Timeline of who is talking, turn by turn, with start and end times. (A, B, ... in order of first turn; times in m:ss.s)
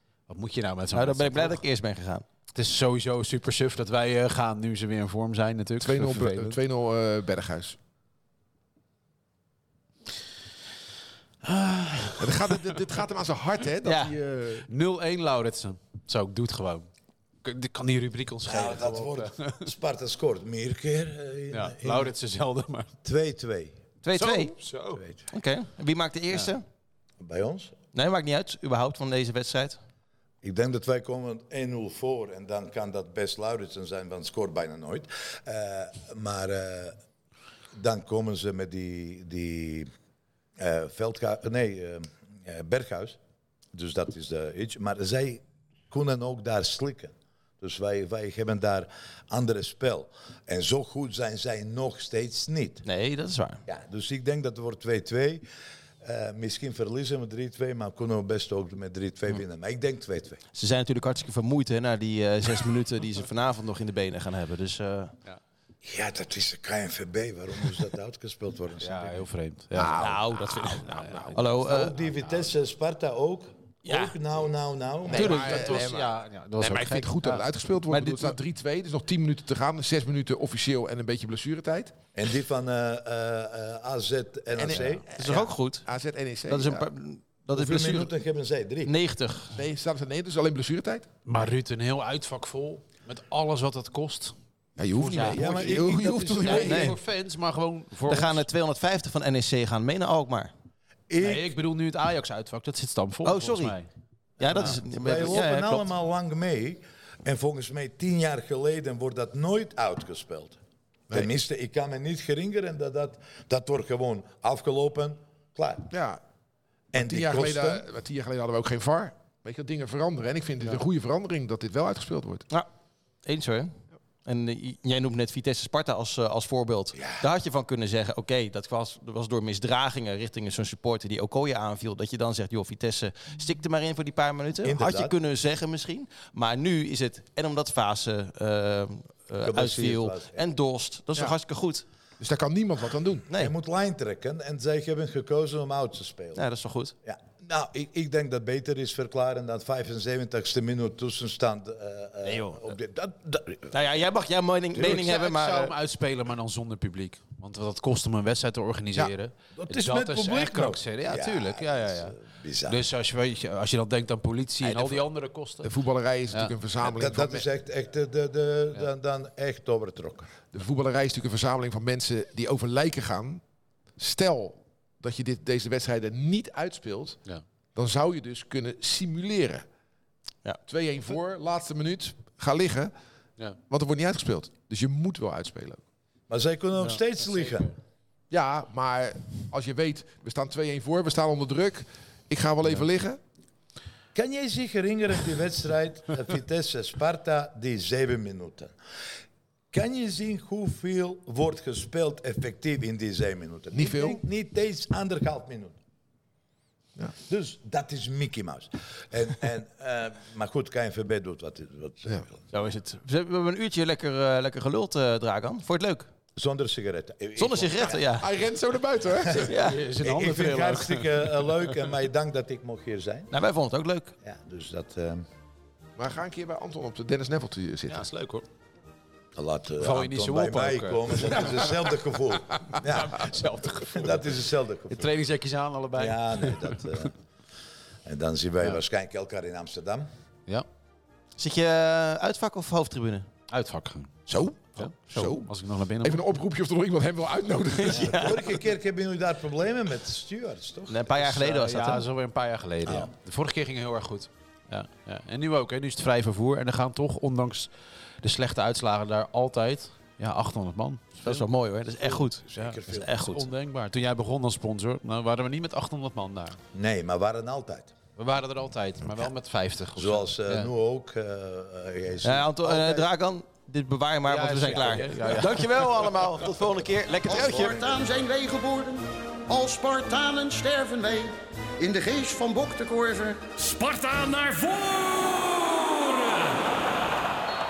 0:00.3-0:01.6 A
0:00.9-0:02.2 B
0:02.5-0:06.6 A
0:05.8-0:07.8 C
0:11.4-0:12.6 A
0:12.2-0:14.7 C
0:13.8-0:14.1 B
0:14.7-0:16.9 A
0:17.4-0:19.6 A
0:18.4-0:22.1 D
0:21.5-0:22.9 A
0:23.0-0:23.7 D
0:24.0-0:24.5 B
0:24.1-0:25.0 A
0:25.3-0:26.6 B
0:27.2-0:27.7 D
0:27.9-0:29.8 B
0:30.4-0:37.0 D
0:37.7-0:39.9 D
0:40.6-0:43.2 D
0:43.7-0:52.8 D
0:52.8-0:53.6 B
0:53.6-0:55.4 D
0:56.0-1:00.4 D
1:00.5-1:05.1 B
1:05.8-1:09.2 D
1:08.8-1:10.0 A
1:09.7-1:11.4 C
1:10.0-1:11.9 B
1:10.8-1:11.5 A
1:11.6-1:15.9 D
1:12.2-1:12.5 A
1:13.8-1:14.1 B
1:15.1-1:21.9 C
1:15.1-1:17.5 A
1:17.9-1:18.4 B
1:22.1-1:25.0 D
1:24.6-1:26.9 C
1:25.1-1:25.9 B
1:26.5-1:28.1 B
1:27.5-1:28.9 D
1:28.8-1:29.6 B
1:29.5-1:31.1 C
1:31.2-1:34.3 A
1:34.8-1:36.9 C
1:34.9-1:38.4 A
1:35.2-1:36.4 D
1:36.4-1:37.0 B
1:38.1-1:40.5 B
1:41.1-1:41.5 D
1:41.2-1:43.8 A
1:43.2-1:43.8 B
1:44.4-1:45.9 B
1:44.4-1:50.6 D
1:51.1-1:55.9 D
1:55.9-1:56.2 C
1:56.9-1:57.8 D
1:56.9-2:02.4 C
2:03.2-2:03.7 B
2:04.2-2:21.8 B
2:06.9-2:07.2 D
2:14.6-2:15.1 D
2:19.4-2:20.4 D
2:22.2-2:23.3 C
2:23.4-2:26.4 D
2:26.3-2:26.9 B
2:27.0-2:34.0 D
2:32.2-2:32.7 B
2:33.7-2:35.7 B
2:34.7-2:35.1 D
2:34.8-2:45.7 A
2:39.6-2:42.8 D
2:44.7-2:45.0 B
2:45.6-2:47.4 C
2:46.8-2:50.3 D
2:50.5-2:53.4 C
2:54.0-2:57.2 C
2:57.7-2:59.6 C
3:00.7-3:02.9 C
3:03.7-3:05.8 C
3:06.3-3:07.7 D
3:06.8-3:07.7 A
3:08.3-3:13.2 C
3:14.1-3:18.7 D
3:19.7-3:25.8 D
3:23.7-3:24.2 C
3:27.3-3:32.4 D
3:32.5-3:36.1 B
3:36.4-3:38.0 D
3:37.4-3:38.3 B
3:38.0-3:39.6 C
3:39.4-3:39.8 B
3:39.6-3:41.6 A
3:40.0-3:43.3 D
3:43.3-3:44.1 B
3:44.2-3:45.2 D
3:46.0-3:48.0 C
3:47.9-3:48.4 A
3:49.3-3:55.1 D
3:49.8-3:51.8 A
3:52.7-3:54.3 A
3:54.9-3:56.8 A
3:55.9-3:57.1 D
3:58.0-4:00.1 D
4:01.4-4:03.3 B
4:03.5-4:04.2 A
4:04.3-4:05.5 C
4:04.8-4:06.2 A
4:06.0-4:08.2 C
4:07.8-4:08.4 B
4:07.9-4:11.1 D
4:10.9-4:12.0 B
4:11.1-4:17.7 A
4:18.2-4:21.5 A
4:21.2-4:23.5 B
4:22.5-4:23.1 D
4:22.5-4:26.6 A
4:26.7-4:27.9 D
4:28.2-4:30.7 A
4:30.0-4:33.0 D
4:32.2-4:37.8 B
4:34.3-4:36.2 A
4:34.7-4:35.4 D
4:37.2-4:37.9 D
4:37.3-4:43.4 E
4:43.6-4:46.6 F